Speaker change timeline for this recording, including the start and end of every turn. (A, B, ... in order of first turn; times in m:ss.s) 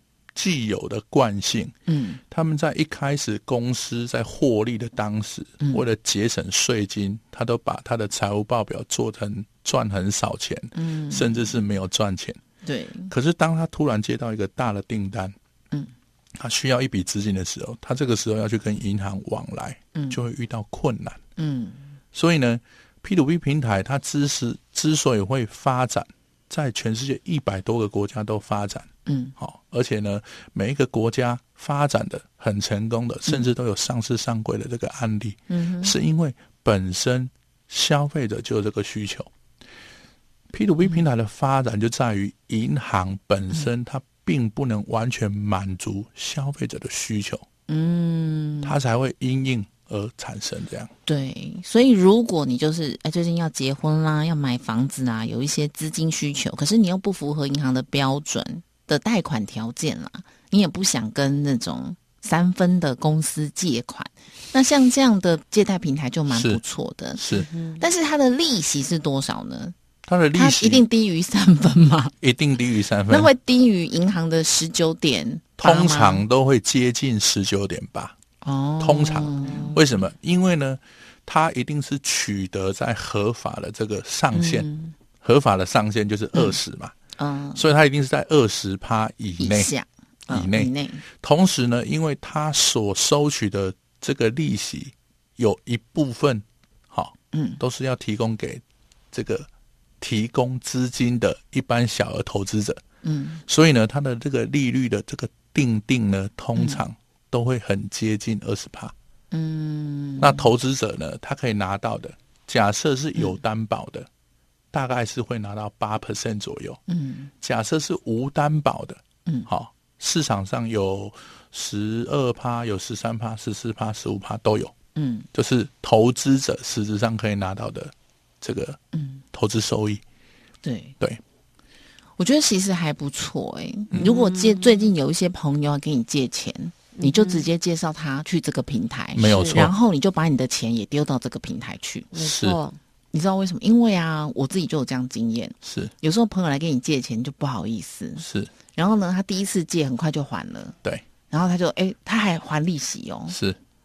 0:00.4-0:01.7 A
0:01.9-0:02.2 B
0:02.3-0:12.4 A
0:10.8-0:11.5 B
0:12.6-0:13.1 B
0:13.1-0:15.4 A
0:16.4-0:21.2 A
0:21.4-0:21.9 B
0:22.1-0:39.3 A
0:29.1-0:29.4 B
0:35.5-0:35.9 B
0:40.5-0:47.4 A
0:47.7-0:48.8 B
0:48.6-0:50.9 A
0:51.1-1:07.2 B
1:06.3-1:06.6 A
1:07.2-1:07.5 A
1:07.3-1:07.8 C
1:07.8-1:09.8 B
1:10.0-1:10.8 A
1:10.3-1:12.1 B
1:12.2-1:13.3 A
1:13.1-1:16.2 B
1:15.6-1:18.2 A
1:18.4-1:19.8 B
1:18.8-1:24.7 A
1:19.4-1:19.8 C
1:24.3-1:24.9 B
1:25.2-1:27.0 A
1:27.2-1:27.6 B
1:27.6-1:29.7 A
1:29.4-1:31.0 B
1:30.3-1:39.5 A
1:37.3-1:37.6 B
1:40.0-1:42.8 A
1:43.0-1:43.4 B
1:43.5-1:48.9 A
1:46.6-1:46.8 B
1:49.3-1:50.5 B
1:50.2-1:54.1 A
1:54.7-1:56.8 A
1:56.9-1:57.3 B
1:57.4-2:04.7 A
2:05.0-2:05.3 B
2:05.3-2:08.8 A
2:08.9-2:09.2 B
2:09.3-2:10.0 A
2:10.6-2:11.0 B
2:12.2-2:22.1 B
2:14.0-2:14.9 C
2:17.0-2:17.5 C
2:19.2-2:19.7 A
2:19.3-2:19.6 C
2:22.1-2:22.8 C
2:22.2-2:22.6 A
2:23.1-2:30.8 B
2:25.6-2:25.9 A
2:28.2-2:28.5 A
2:31.3-2:33.4 B
2:33.3-2:33.6 A